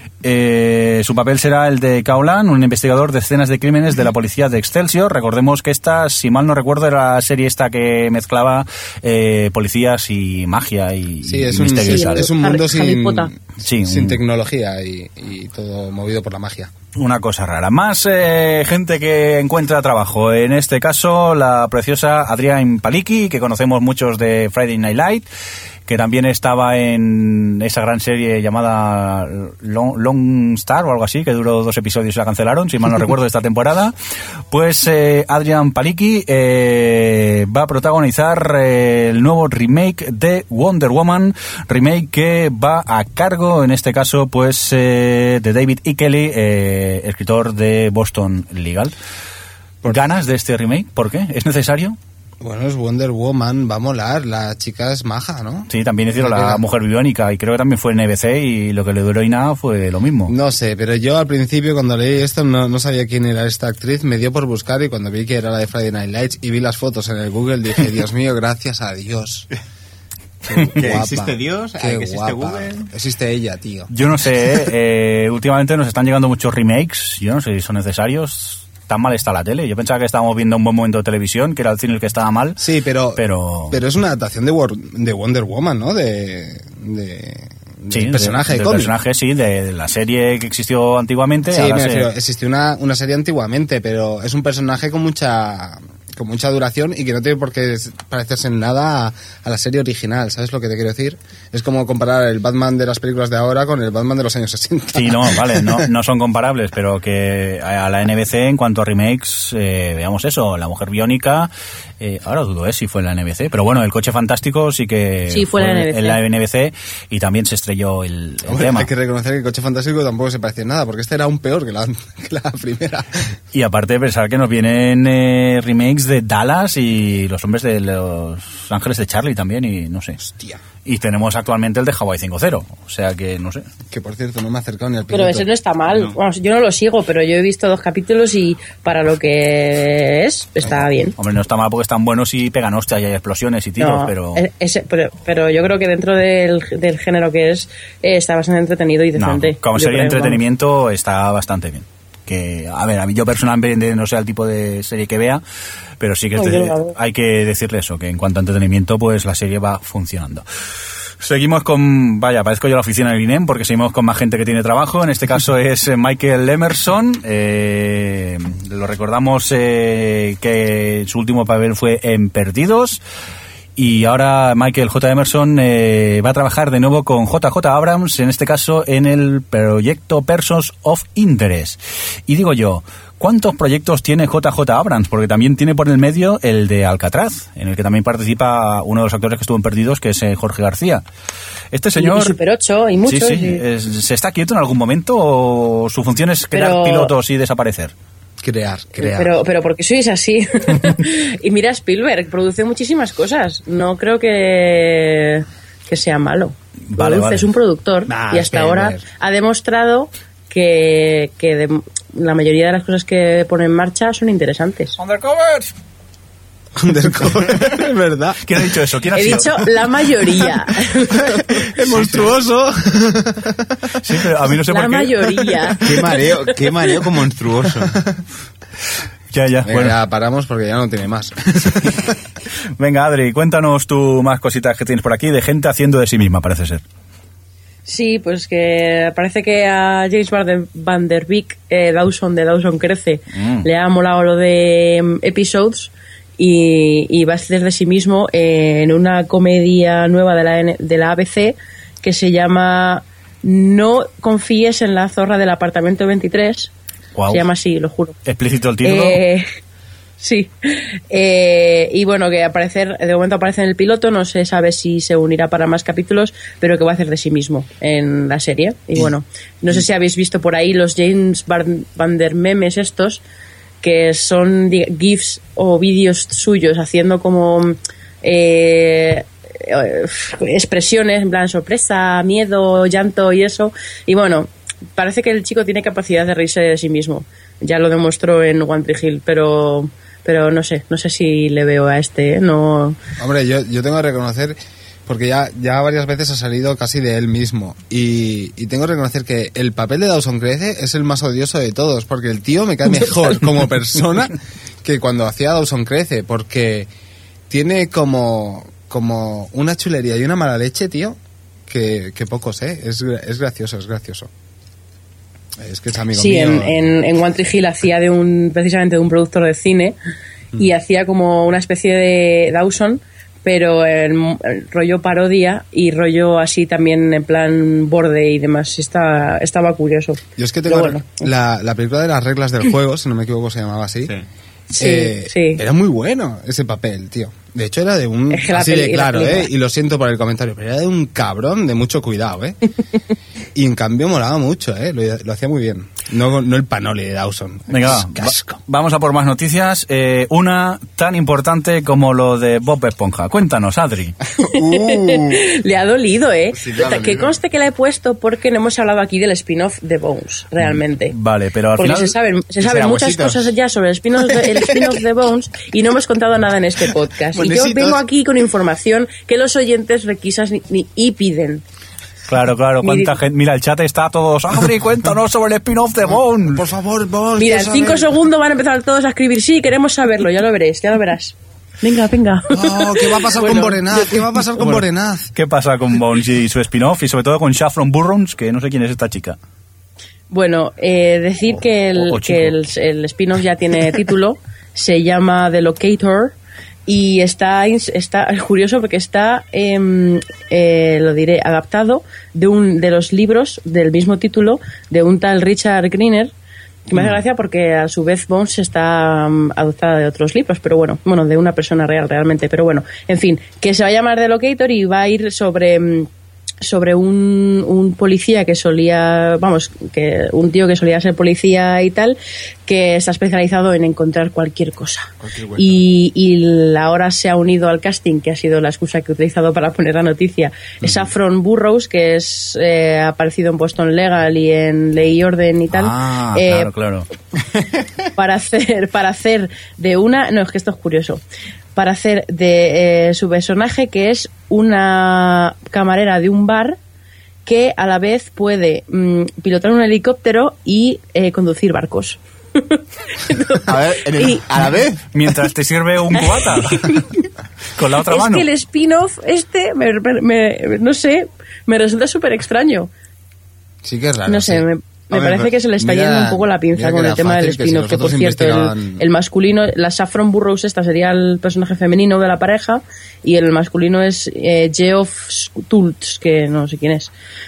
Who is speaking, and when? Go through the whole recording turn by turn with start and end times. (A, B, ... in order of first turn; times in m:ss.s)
0:00.2-0:12.3 A
0:11.2-0:16.7 B
0:11.8-0:13.3 C
0:13.6-0:14.2 A
0:16.9-0:25.2 A
0:25.9-0:33.9 A
0:34.5-0:48.9 A
0:49.8-0:52.0 A
0:52.4-0:56.6 B
0:55.7-1:00.3 A
1:00.3-1:09.5 B
1:10.5-1:13.9 B
1:10.5-1:12.9 D
1:13.9-1:22.6 A
1:22.6-1:28.9 B
1:23.2-1:23.8 A
1:27.9-1:32.1 A
1:31.5-1:45.9 B
1:44.9-1:58.9 A
1:55.3-1:56.2 C
1:58.5-2:03.2 B
2:03.5-2:10.2 A
2:10.2-2:10.6 B
2:10.8-2:13.6 A
2:13.9-2:15.5 B
2:15.1-2:21.1 C
2:21.2-2:24.4 A
2:23.8-2:30.4 C
2:29.2-2:35.4 A
2:36.0-2:40.4 A
2:36.4-2:36.9 C
2:41.2-2:53.0 A
2:53.8-3:11.0 A
3:11.7-3:12.4 A
3:12.0-3:13.6 C
3:13.0-3:17.9 A
3:16.5-3:17.1 C
3:18.4-3:19.3 B
3:19.0-3:35.0 C
3:26.9-3:27.5 A
3:28.1-3:29.0 B
3:35.0-3:35.7 A
3:36.8-3:38.6 B
3:38.4-3:39.5 A
3:39.1-3:41.4 C
3:41.2-3:43.8 B
3:41.9-3:42.3 A
3:44.0-3:45.4 A
3:44.7-3:46.1 C
3:45.8-3:48.0 D
3:49.3-3:50.0 A
3:49.6-3:52.1 B
3:52.8-3:56.8 A
3:57.9-4:16.7 C
4:03.3-4:03.6 A
4:17.1-4:17.4 A
4:17.3-4:18.1 C
4:18.2-4:19.2 A
4:18.8-4:19.4 C
4:20.2-4:33.2 C
4:33.8-4:53.0 C
4:53.2-5:06.9 B
5:07.5-5:14.3 B
5:15.6-5:16.8 B
5:16.1-5:20.0 C
5:20.6-5:31.2 C
5:30.4-5:34.1 B
5:34.7-5:42.6 B
5:34.8-5:35.6 C
5:38.3-5:39.5 C
5:43.5-5:48.6 B
5:47.7-5:54.2 A
5:54.4-5:55.4 D
5:54.4-6:01.1 C
5:56.5-5:57.3 D
6:00.6-6:02.1 A
6:01.8-6:11.6 C
6:02.6-6:03.5 D
6:07.3-6:08.0 B
6:12.3-6:16.7 A
6:12.8-6:13.2 C
6:16.5-6:18.1 B
6:17.4-6:24.2 C
6:22.5-6:25.3 B
6:24.6-6:29.4 A
6:30.3-6:36.3 C
6:32.0-6:32.6 A
6:36.9-6:46.3 C
6:46.9-6:56.1 C
6:56.6-7:16.7 C
7:05.2-7:05.6 B
7:15.7-7:17.1 A
7:18.2-7:21.2 C
7:21.7-7:26.8 C
7:27.4-7:34.4 C
7:33.6-7:35.0 D
7:35.1-7:37.1 A
7:36.2-7:37.2 C
7:37.7-7:38.5 A
7:38.1-7:42.9 C
7:43.8-7:44.6 B
7:44.2-7:57.1 C
7:45.1-7:45.5 D
7:45.8-7:49.0 B